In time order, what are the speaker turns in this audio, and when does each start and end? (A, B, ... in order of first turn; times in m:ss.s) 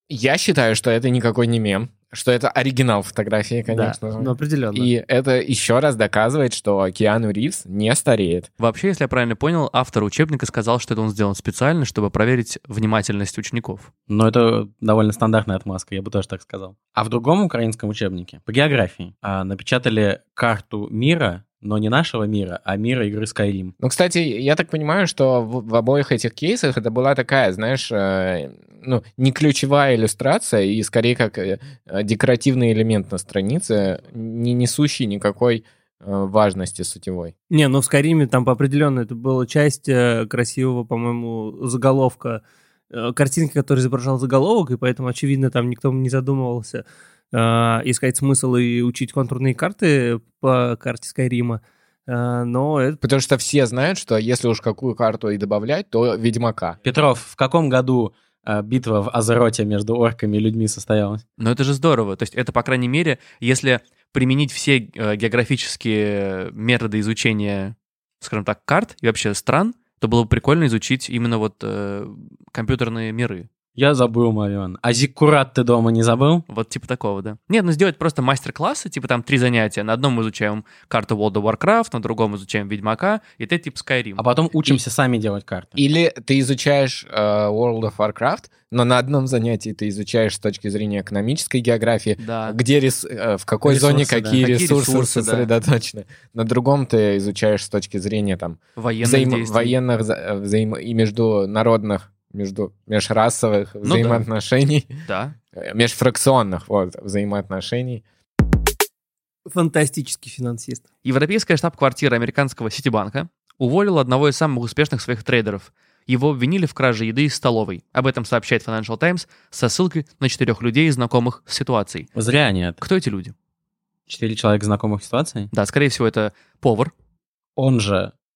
0:00.1-0:08.5 A
0:03.7-0:04.9 B
0:08.6-0:13.9 C
0:14.1-0:23.7 D
0:23.8-0:37.3 A
0:37.5-0:53.0 B
0:53.0-0:56.8 A
0:56.8-1:01.2 D
1:01.4-1:13.5 C
1:13.8-1:16.4 D
1:16.5-1:24.8 C
1:24.2-1:25.8 D
1:25.8-1:44.9 A
1:32.2-1:32.6 C
1:33.6-1:34.4 D
1:34.4-1:35.5 C
1:38.8-1:39.8 C
1:43.8-1:44.2 C
1:45.1-1:45.4 C
1:45.5-1:48.0 A
1:49.5-1:50.8 B
1:51.0-2:02.1 C
2:02.2-2:02.8 D
2:02.8-2:03.3 C
2:04.1-2:05.5 D
2:05.5-2:06.9 C
2:07.6-2:08.1 D